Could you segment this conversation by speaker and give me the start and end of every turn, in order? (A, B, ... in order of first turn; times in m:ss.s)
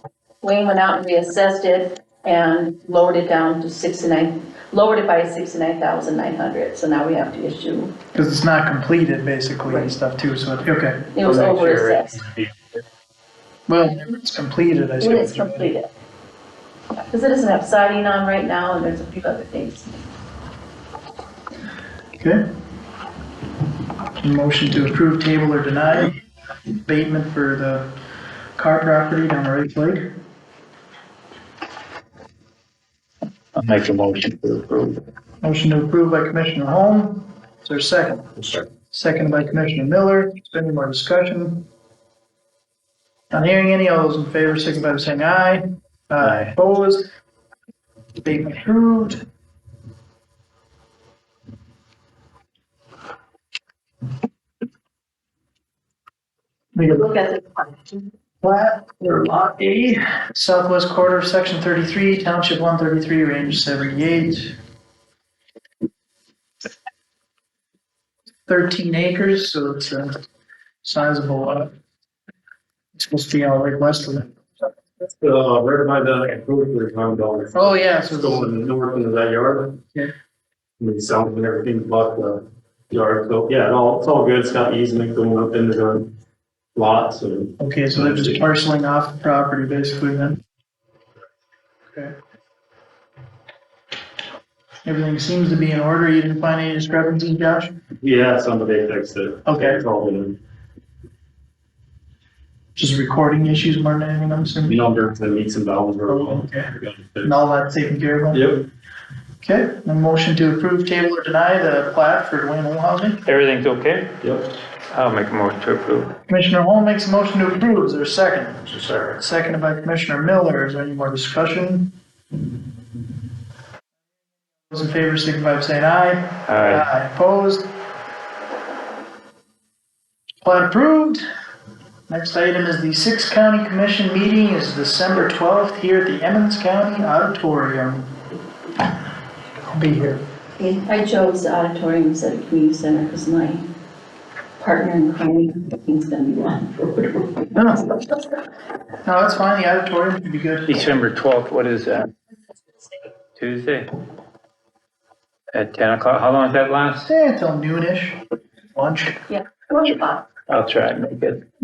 0:00.4-0:07.9 A
0:08.1-0:11.1 B
0:11.2-0:12.2 A
0:11.2-0:12.5 C
0:13.7-0:15.7 B
0:15.0-0:15.9 A
0:17.1-0:19.8 A
0:24.2-0:26.1 B
0:26.8-0:27.9 B
0:28.6-0:30.1 B
0:33.6-0:35.0 C
0:35.4-0:38.3 B
0:38.9-0:41.7 B
0:43.3-0:47.1 B
0:46.2-0:46.5 C
0:48.2-0:49.2 B
0:56.8-0:57.1 B
0:56.9-0:58.0 A
0:58.4-1:04.6 B
1:08.5-1:10.2 B
1:10.8-1:11.7 B
1:13.0-1:14.3 B
1:15.2-1:19.8 D
1:17.5-1:18.6 B
1:20.8-1:26.1 D
1:26.8-1:28.4 D
1:27.6-1:30.4 B
1:34.8-1:37.7 B
1:38.0-1:40.4 D
1:39.5-1:39.8 B
1:42.8-1:44.8 B
1:44.6-1:47.3 D
1:46.1-1:46.7 B
1:47.2-1:48.4 B
1:48.3-1:48.6 D
1:49.4-1:53.2 B
1:53.2-1:54.2 C
1:54.2-1:54.5 D
1:54.9-1:56.1 C
1:56.3-2:01.9 B
2:04.7-2:07.7 B
2:06.5-2:06.8 C
2:10.4-2:11.2 B
2:12.1-2:18.1 B
2:19.7-2:20.2 B
2:20.6-2:23.6 A
2:24.6-2:27.4 A
2:27.5-2:27.9 B
2:29.0-2:31.0 B
2:30.7-2:32.1 C
2:33.4-2:33.9 C
2:35.5-2:37.1 C
2:37.0-2:38.2 B
2:38.8-2:39.2 B
2:39.3-2:40.3 A
2:40.5-2:41.4 C